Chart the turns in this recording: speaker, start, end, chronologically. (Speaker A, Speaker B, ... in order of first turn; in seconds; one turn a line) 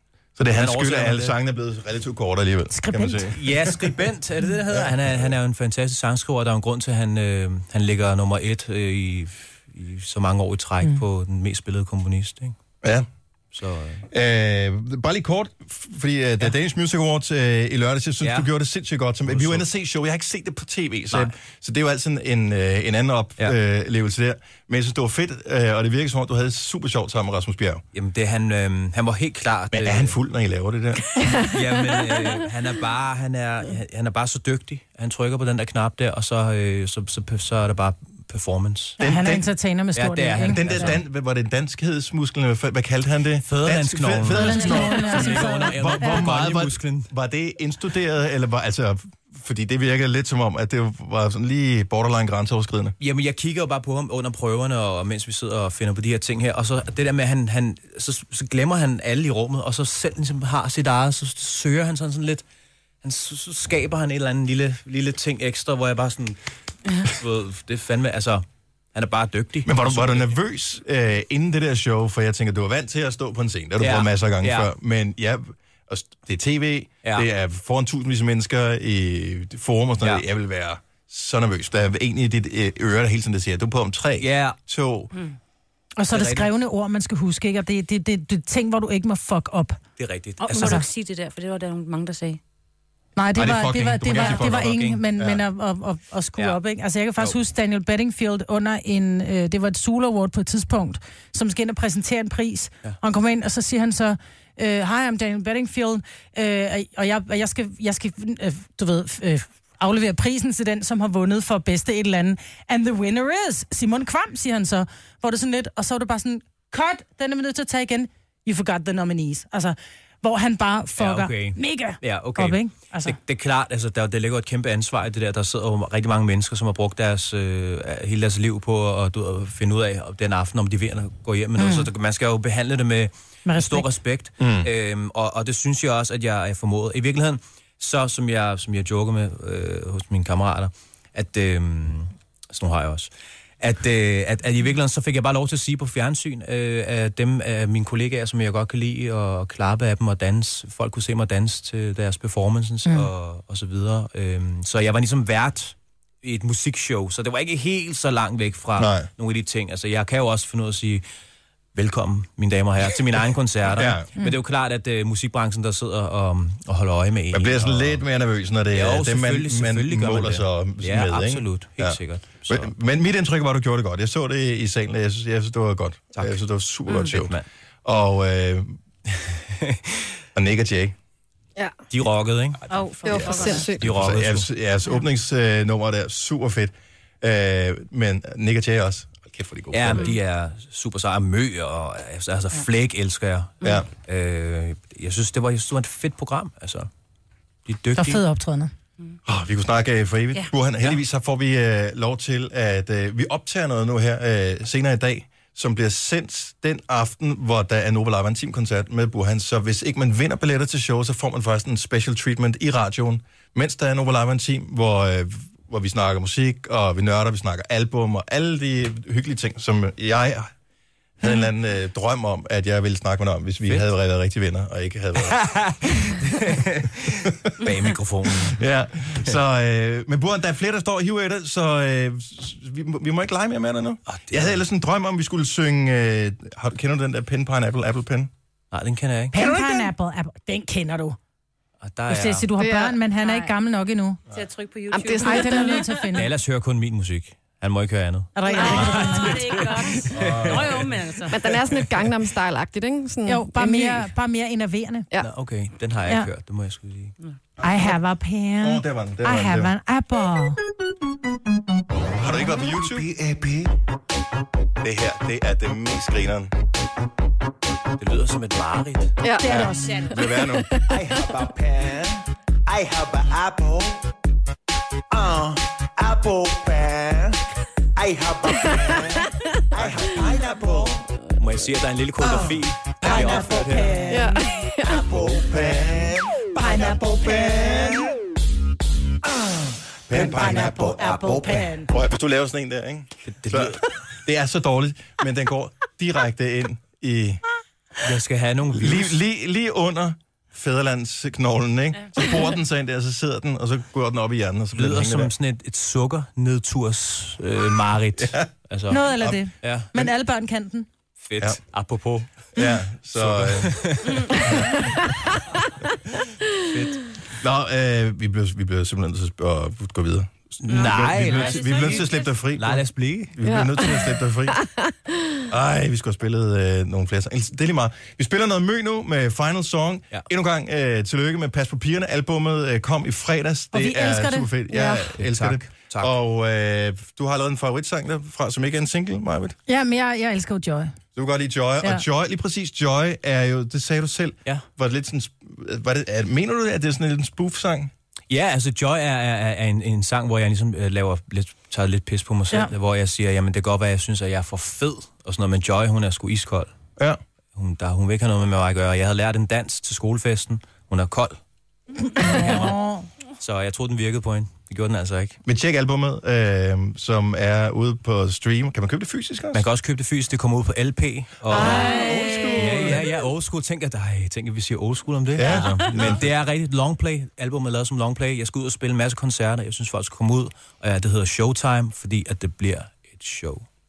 Speaker A: 0.4-4.0
Speaker B: 0.4-1.3
Speaker C: 2.7-3.3
Speaker B: 3.3-12.6
Speaker A: 4.7-5.3
Speaker A: 12.8-13.1
Speaker B: 13.5-14.1
Speaker A: 14.1-27.8
Speaker B: 18.2-18.5
Speaker B: 19.2-19.6
Speaker B: 27.9-30.1
Speaker A: 29.7-31.2
Speaker B: 31.5-39.0
Speaker A: 39.0-39.5
Speaker C: 39.0-41.0
Speaker B: 39.9-41.0
Speaker A: 40.4-52.9
Speaker B: 43.4-47.1
Speaker C: 44.3-46.3
Speaker D: 44.7-45.1
Speaker B: 53.0-62.4
Speaker B: 63.0-66.4
Speaker B: 67.0-70.3
Speaker A: 69.7-85.1
Speaker B: 73.8-74.7
Speaker B: 84.2-84.6
Speaker C: 86.0-89.8
Speaker B: 86.1-86.5
Speaker B: 90.0-90.8
Speaker D: 90.4-92.4
Speaker C: 90.4-90.8
Speaker C: 93.2-123.2
Speaker A: 93.3-95.4
Speaker B: 94.1-95.0
Speaker B: 121.0-161.0
Speaker C: 131.6-131.8
Speaker C: 133.4-133.9
Speaker A: 134.4-134.7
Speaker A: 158.8-159.1
Speaker B: 161.7-168.0
Speaker A: 163.7-164.1
Speaker A: 167.3-178.8
Speaker B: 168.7-172.7
Speaker B: 177.0-177.4
Speaker B: 179.4-180.1
Speaker A: 180.3-180.9
Speaker B: 181.9-184.5
Speaker D: 182.7-183.7
Speaker E: 183.0-184.1
Speaker A: 183.1-190.1
Speaker B: 189.7-196.9
Speaker B: 197.7-198.2
Speaker C: 197.9-198.7
Speaker A: 199.2-220.5
Speaker A: 221.2-225.4
Speaker B: 225.2-228.6
Speaker A: 227.2-227.5
Speaker A: 228.5-238.3
Speaker B: 234.1-234.6
Speaker B: 238.7-239.3
Speaker C: 239.3-241.2
Speaker E: 239.4-239.9
Speaker B: 241.8-242.5
Speaker C: 242.1-244.2
Speaker E: 242.6-243.0
Speaker D: 243.2-243.5
Speaker D: 244.3-245.9
Speaker E: 244.9-246.0
Speaker C: 245.2-246.3
Speaker B: 246.1-250.9
Speaker C: 248.3-250.0
Speaker D: 248.5-251.4
Speaker A: 250.1-250.9
Speaker E: 251.3-254.1
Speaker C: 253.3-255.1
Speaker B: 255.2-257.1
Speaker C: 257.6-260.6
Speaker A: 258.6-259.7
Speaker A: 262.2-263.1
Speaker F: 262.2-263.7
Speaker A: 264.8-266.5
Speaker B: 268.0-269.1
Speaker E: 269.2-271.3
Speaker C: 269.4-270.1
Speaker A: 269.4-270.7
Speaker F: 270.9-274.0
Speaker F: 275.1-277.4
Speaker F: 277.9-281.1
Speaker B: 281.4-283.9
Speaker F: 282.2-284.2
Speaker C: 283.0-284.4
Speaker E: 284.1-285.0
Speaker F: 284.8-288.1
Speaker A: 285.5-286.1
Speaker C: 286.6-287.6
Speaker F: 290.1-291.8
Speaker C: 290.1-291.9
Speaker A: 290.1-290.9
Speaker A: 291.8-297.4
Speaker B: 293.2-293.8
Speaker B: 298.0-299.1
Speaker A: 298.7-305.3
Speaker B: 304.7-309.9
Speaker A: 308.2-308.5
Speaker C: 308.9-310.9
Speaker A: 309.2-309.4
Speaker B: 311.2-314.2
Speaker A: 312.5-314.9
Speaker B: 316.7-317.0
Speaker A: 317.4-324.6
Speaker B: 320.6-323.4
Speaker D: 320.7-322.3
Speaker E: 323.4-324.9
Speaker A: 325.5-339.6
Speaker C: 333.7-334.5
Speaker E: 334.7-335.1
Speaker B: 335.2-336.1
Speaker C: 339.7-340.9
Speaker A: 341.1-347.9
Speaker B: 348.3-356.7
Speaker B: 357.6-361.4
Speaker C: 362.2-363.1
Speaker B: 362.2-362.8
Speaker B: 363.4-365.4
Speaker A: 365.4-369.7
Speaker B: 369.5-371.9
Speaker A: 371.5-373.1
Speaker C: 371.6-372.2
Speaker D: 371.7-372.6
Speaker B: 372.6-383.6
Speaker A: 375.3-376.3
Speaker D: 375.4-376.1